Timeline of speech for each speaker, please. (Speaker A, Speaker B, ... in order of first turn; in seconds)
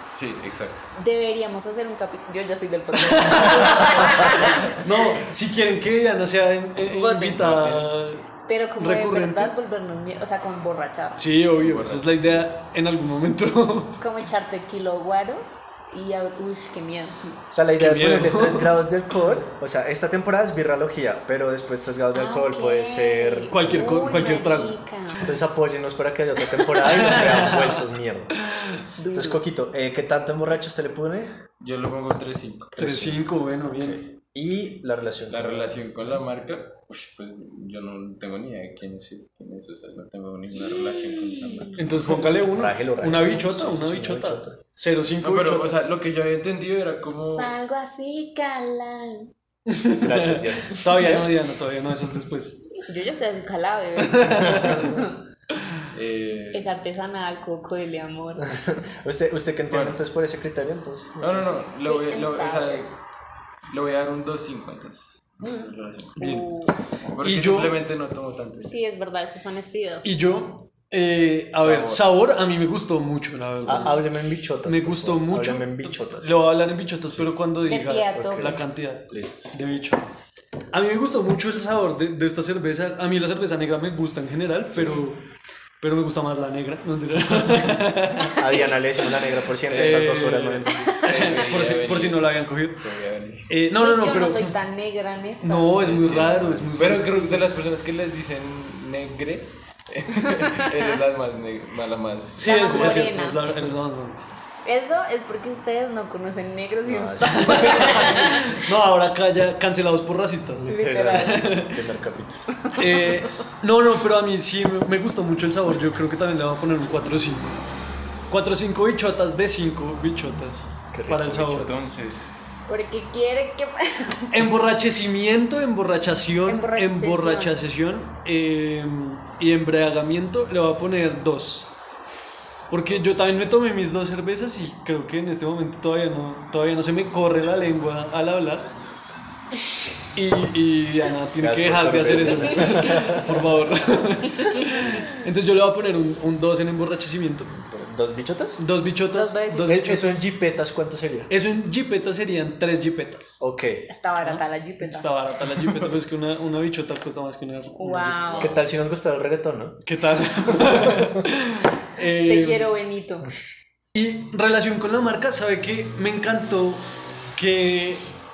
Speaker A: 0.1-0.9, 7.4-8.0, 11.5-12.6, 31.6-32.8, 35.3-42.3, 45.2-47.5, 55.9-56.7, 59.7-60.0, 61.2-63.0, 63.7-66.2, 67.1-68.7, 71.6-72.1, 89.6-93.5, 95.8-103.1, 121.5-122.7
Speaker B: 0.9-4.8, 6.8-7.5, 8.5-11.2, 14.0-17.4, 22.1-25.4, 29.0-29.4, 40.6-41.8, 47.2-49.3, 51.0-51.2, 52.8-55.1, 56.5-58.5, 61.7-62.9, 65.4-66.8, 68.6-70.0, 77.7-78.6, 88.5-88.7, 90.7-91.0, 93.8-95.9, 102.4-103.4, 104.7-108.6, 110.7-111.5, 112.7-113.2, 122.7-124.3, 126.5-127.5, 144.3-145.1, 149.1-149.8, 153.9-155.1, 157.8-158.6, 162.3-163.3
Speaker C: 3.0-8.2, 8.8-9.5, 11.2-14.0, 17.8-18.8, 23.5-24.8, 26.6-27.9, 28.4-28.8, 32.8-34.1, 41.8-45.9, 49.7-52.8, 54.0-55.0, 66.2-66.5, 67.2-67.8, 70.0-74.0, 74.6-85.3, 85.8-88.5, 89.7-92.8, 93.5-94.5, 95.4-97.4, 102.4-104.2, 107.2-111.9, 112.8-117.5, 118.3-121.7, 124.3-131.7, 132.7-138.7, 140.1-147.5, 148.6-150.2, 151.3-153.4, 154.2-158.5, 159.9-162.7, 163.9-168.1
Speaker D: 17.5-24.0, 25.2-28.4, 29.1-31.4, 32.8-33.2, 33.8-35.9, 42.2-44.6, 50.0-51.1, 54.3-55.0, 58.4-61.7, 73.7-76.4, 78.2-79.5, 84.8-85.0, 88.3-91.6, 96.3-96.7, 106.8-108.2, 110.6-112.5, 120.9-121.9, 141.4-143.5, 147.5-148.6, 149.7-151.3, 153.4-153.9, 155.5-155.9, 158.4-159.8, 160.4-161.2